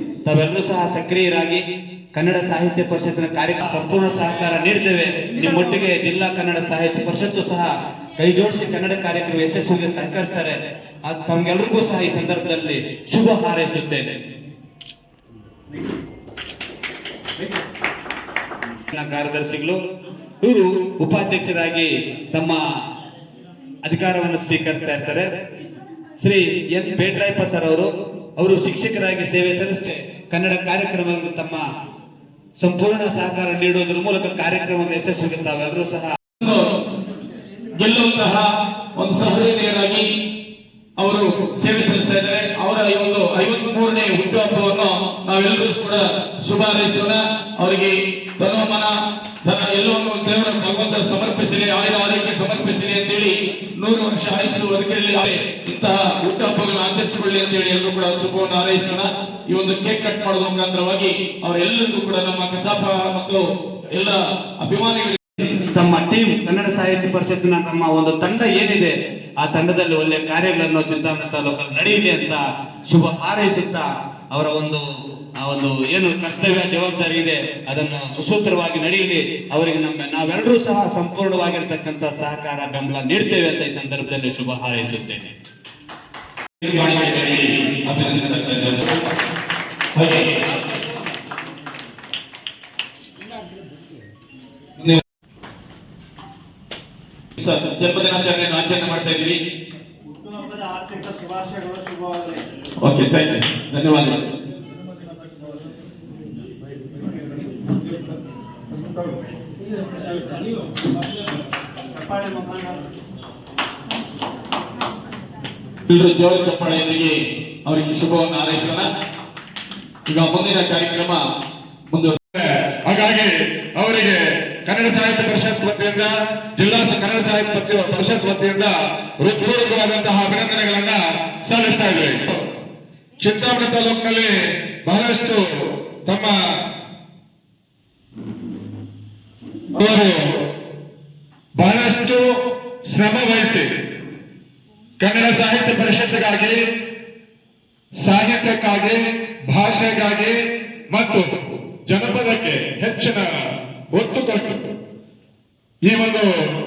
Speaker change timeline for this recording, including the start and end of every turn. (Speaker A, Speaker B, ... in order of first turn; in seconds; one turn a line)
Speaker A: 0.2-14.2
Speaker A: 18.9-19.8
Speaker A: 20.4-22.6
Speaker A: 23.8-25.3
Speaker A: 26.2-31.6
Speaker A: 32.6-36.1
Speaker B: 36.4-36.7
Speaker B: 37.8-40.1
Speaker B: 41.0-48.9
Speaker B: 49.4-65.5
Speaker A: 65.7-74.8
Speaker A: 75.4-85.3
Speaker B: 86.6-88.8
Speaker B: 90.0-90.3
Speaker B: 97.4-99.4
Speaker C: 100.3-102.4
Speaker B: 102.8-104.2
Speaker C: 112.1-112.7
Speaker B: 115.9-118.9
Speaker B: 120.1-121.2
Speaker B: 121.9-122.2
Speaker D: 122.3-132.4
Speaker D: 133.2-135.4
Speaker D: 136.1-136.3
Speaker D: 139.8-140.2
Speaker D: 141.6-142.2
Speaker D: 142.9-143.7
Speaker D: 145.0-146.6
Speaker D: 148.0-150.4
Speaker D: 150.9-151.3
Speaker D: 151.9-153.2
Speaker D: 153.9-154.7
Speaker D: 155.8-156.3